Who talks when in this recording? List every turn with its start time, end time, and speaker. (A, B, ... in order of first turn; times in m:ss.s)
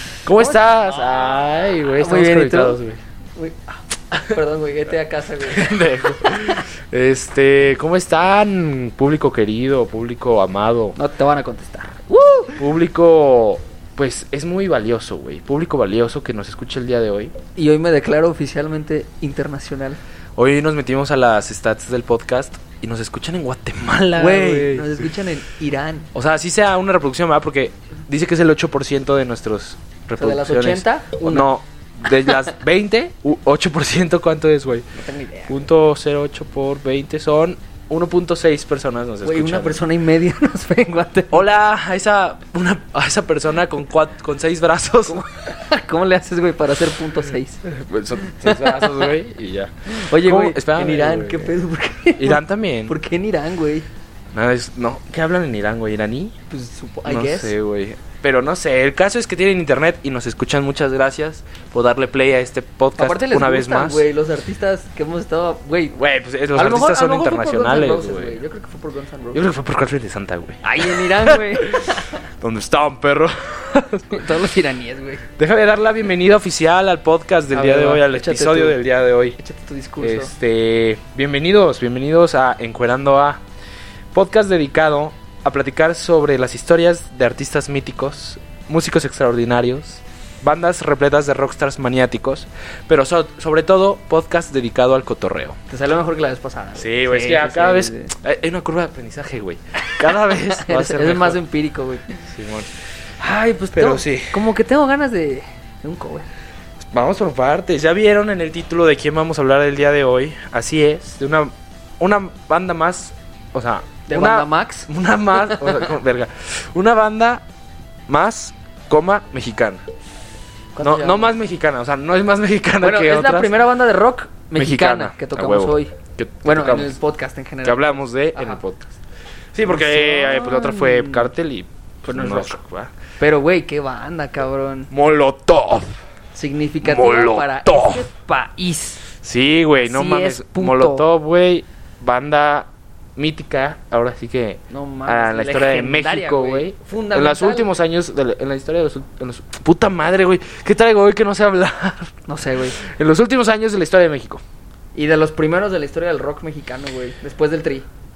0:00.2-0:03.0 A
0:02.0-0:02.8 B
0:03.4-0:06.6 B
0:05.4-0:11.0 A
0:11.0-0:12.6 B
0:12.6-0:17.3 A
0:17.6-0:20.0 B
0:20.4-0:25.1 A
0:24.2-0:26.1 B
0:26.1-0:34.9 A
0:30.2-0:31.5 B
0:35.0-0:35.6 B
0:35.5-0:39.8 A
0:39.2-0:41.4 B
0:41.3-0:45.2 A
0:45.1-0:47.6 B
0:47.6-0:51.5 A
0:48.2-0:49.1 B
0:49.9-0:53.9 B
0:52.2-0:52.9 A
0:54.3-0:56.4 A
0:56.5-0:57.5 B
0:57.0-1:04.1 A
1:03.0-1:06.0 B
1:06.0-1:08.4 A
1:06.6-1:09.4 B
1:09.3-1:14.4 A
1:10.6-1:12.2 B
1:14.1-1:15.2 B
1:15.4-1:19.4 A
1:17.5-1:18.8 B
1:19.4-1:20.3 B
1:20.0-1:23.4 A
1:24.1-1:35.6 A
1:35.7-1:38.1 B
1:36.8-1:41.4 A
1:39.8-1:42.2 B
1:42.2-1:42.7 A
1:43.2-1:46.3 B
1:43.7-1:44.5 A
1:46.8-1:57.4 A
1:54.1-1:55.8 B
1:58.1-1:59.8 A
2:00.8-2:01.3 B
2:00.8-2:03.6 A
2:02.8-2:05.9 B
2:04.6-2:06.9 A
2:06.4-2:08.6 B
2:07.6-2:09.0 A
2:09.5-2:12.9 A
2:09.6-2:11.3 B
2:12.1-2:12.6 B
2:13.2-2:14.9 B
2:14.9-2:16.0 A
2:16.3-2:19.0 B
2:16.8-2:18.1 A
2:19.2-2:32.1 A
2:19.8-2:21.0 B
2:24.7-2:27.7 B
2:32.3-2:32.8 B
2:32.8-2:34.4 A
2:35.0-2:37.9 B